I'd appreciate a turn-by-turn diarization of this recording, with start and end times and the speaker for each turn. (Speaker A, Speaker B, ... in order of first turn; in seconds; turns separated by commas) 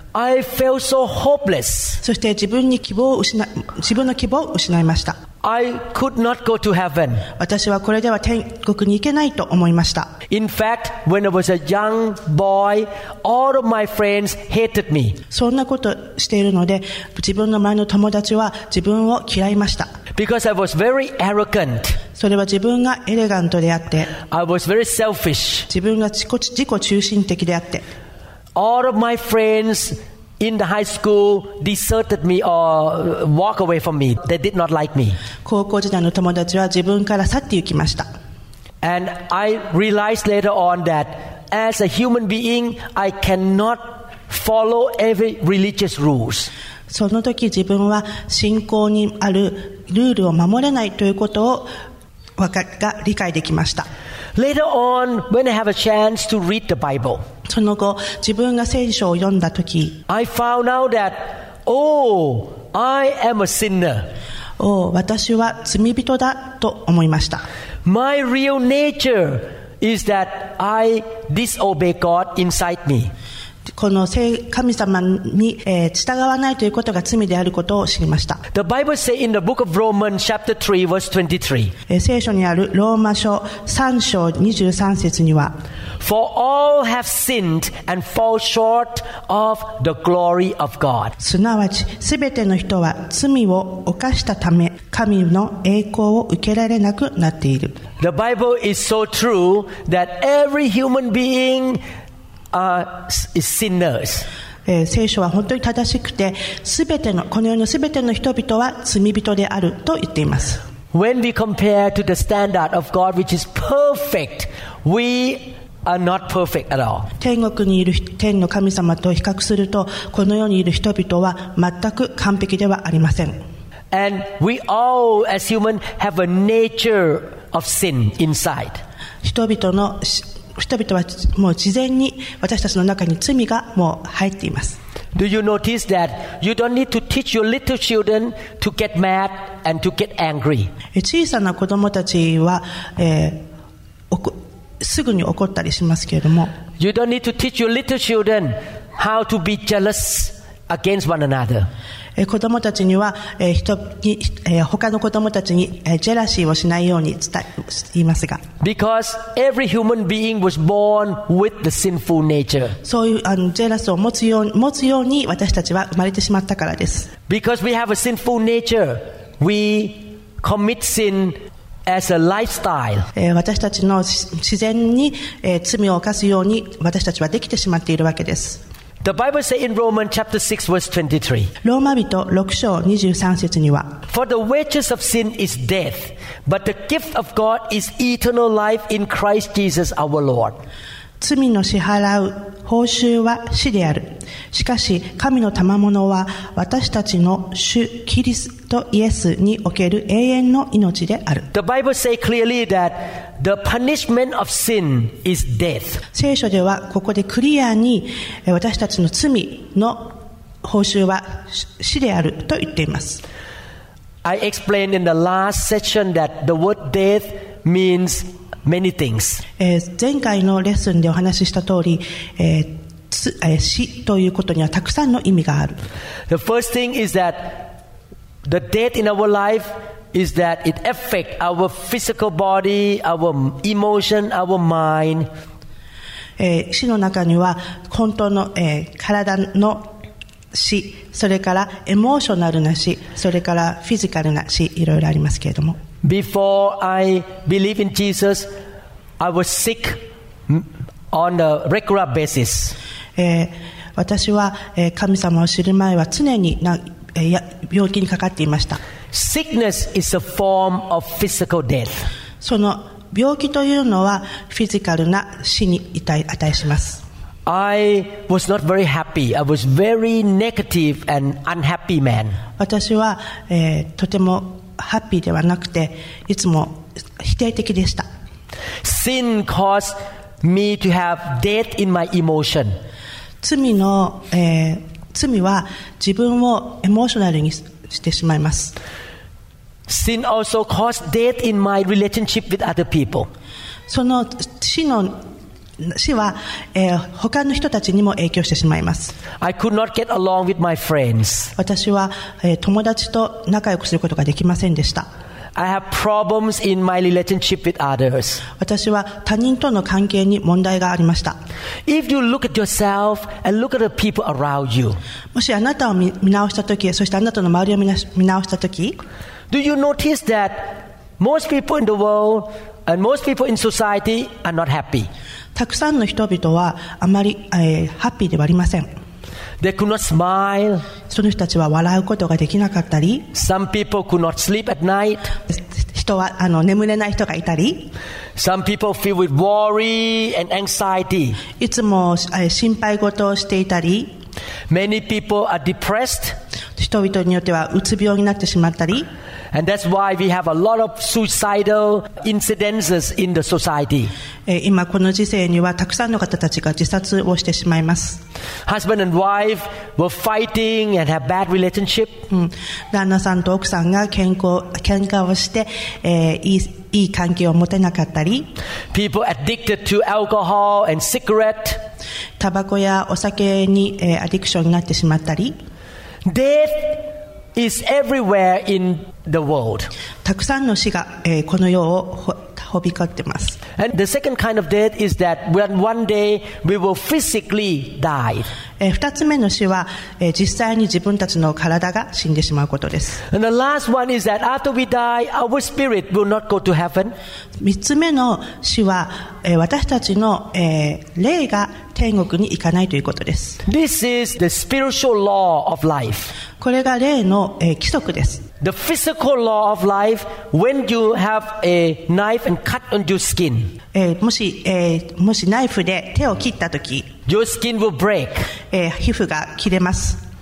Speaker A: 0.1-2.0, Speaker B: 2.0-5.2, Speaker A: 5.4-7.3, Speaker B: 7.4-10.1, Speaker A: 10.3-15.2, Speaker B: 15.3-19.9, Speaker A: 20.1-22.0, Speaker B: 22.2-24.1, Speaker A: 24.3-25.7, Speaker B: 25.7-27.9, Speaker A: 28.6-35.2, Speaker B: 35.4-38.1, Speaker A: 38.8-46.5, Speaker B: 46.9-51.7, Speaker B: 52.4-53.9, Speaker A: 54.3-57.2, Speaker B: 57.5-60.0, Speaker A: 60.1-64.1, Speaker B: 64.6-67.4, Speaker A: 67.8-73.1, Speaker B: 73.7-78.4, Speaker A: 78.5-81.7, Speaker B: 81.9-85.5, Speaker A: 86.0-91.1, Speaker B: 91.2-97.8, Speaker A: 98.0-101.8, Speaker A: 102.5-104.2, Speaker B: 104.7-110.6, Speaker A: 110.9-117.1, Speaker B: 117.2-123.4, Speaker A: 123.9-128.8, Speaker B: 129.2-134.8, Speaker A: 135.1-140.7, Speaker B: 140.9-143.4, Speaker B: 144.1-146.5, Speaker A: 146.8-151.7, Speaker B: 152.2-158.4, Speaker A: 158.6-162.8, Speaker B: 162.8-167.1, Speaker A: 167.3-173.1, Speaker B: 173.1-178.6, Speaker A: 179.0-181.5, Speaker B: 181.6-184.0, Speaker A: 184.1-190.6, Speaker B: 191.2-201.5, Speaker A: 201.5-206.0, Speaker B: 206.1-213.2, Speaker A: 214.2-219.4, Speaker B: 219.6-225.8, Speaker A: 226.3-227.7, Speaker A: 228.4-235.3, Speaker B: 236.4-240.0, Speaker B: 240.5-245.8, Speaker A: 246.0-248.5, Speaker A: 249.2-252.8, Speaker B: 253.2-258.8, Speaker A: 259.1-262.1, Speaker B: 262.4-267.0, Speaker A: 267.5-272.4, Speaker B: 272.6-278.1, Speaker A: 278.8-282.7, Speaker B: 283.4-288.8, Speaker A: 289.9-293.3, Speaker B: 293.9-295.2, Speaker B: 295.8-299.1, Speaker A: 299.4-301.5, Speaker B: 301.6-305.1, Speaker A: 305.6-308.4, Speaker B: 308.6-311.4, Speaker A: 311.9-315.0, Speaker B: 315.3-319.0, Speaker A: 319.5-325.1, Speaker B: 325.5-328.9, Speaker A: 329.6-330.9, Speaker B: 331.1-333.3, Speaker A: 333.3-335.3, Speaker B: 335.5-337.9, Speaker A: 338.4-341.4, Speaker B: 341.6-344.1, Speaker A: 344.7-346.4, Speaker B: 346.8-349.1, Speaker A: 349.5-354.1, Speaker B: 354.5-358.2, Speaker A: 358.6-362.2, Speaker B: 362.3-368.5, Speaker A: 368.9-371.8, Speaker B: 372.4-375.5, Speaker A: 376.2-379.9, Speaker B: 380.2-383.6, Speaker A: 383.8-388.5, Speaker B: 388.8-393.2, Speaker A: 393.3-397.1, Speaker B: 397.6-403.6, Speaker A: 403.6-406.3, Speaker B: 406.6-408.5, Speaker A: 408.6-413.7, Speaker B: 413.9-417.1, Speaker A: 417.3-418.5, Speaker B: 418.7-420.2